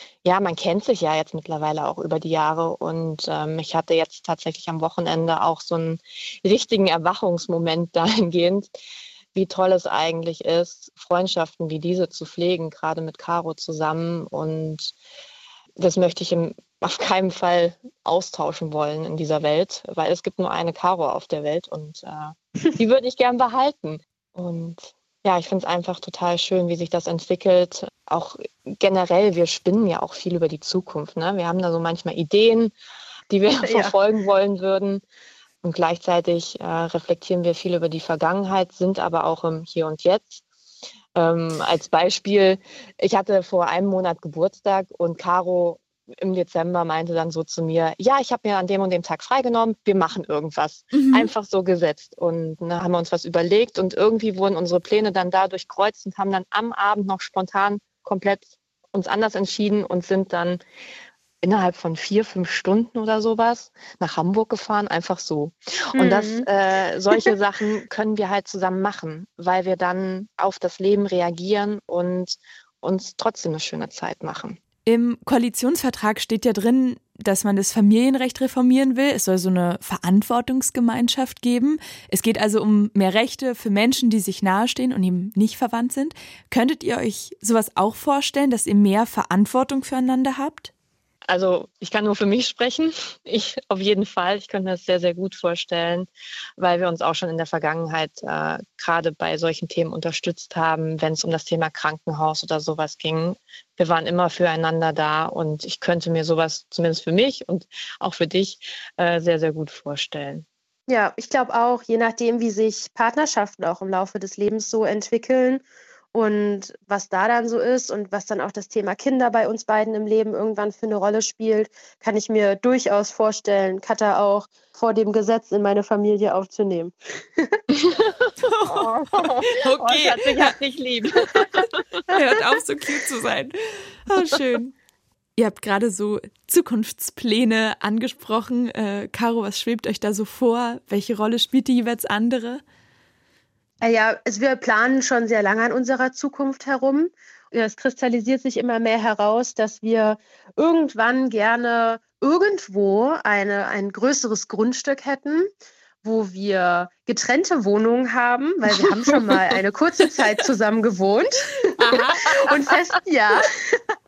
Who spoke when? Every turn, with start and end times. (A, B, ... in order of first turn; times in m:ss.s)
0:00.2-0:08.7 A
0:09.3-0:15.0 A
0:15.8-0:32.8 A
0:33.3-0:35.0 A
0:33.6-0:33.9 B
0:35.6-0:40.4 A
0:41.2-1:00.6 A
0:50.9-0:51.3 C
1:01.4-1:14.6 A
1:06.0-1:06.5 B
1:14.8-1:30.7 C
1:31.3-1:50.5 A
1:50.9-2:07.6 B
2:07.8-2:08.1 A
2:08.4-2:10.6 C
2:08.6-2:12.1 A
2:11.4-2:13.6 C
2:14.1-2:14.8 C
2:15.4-2:22.6 C
2:23.8-2:35.5 B
2:36.0-2:41.6 B
2:39.1-2:39.4 A
2:41.8-2:42.4 C
2:41.9-2:42.3 A
2:42.3-2:43.8 B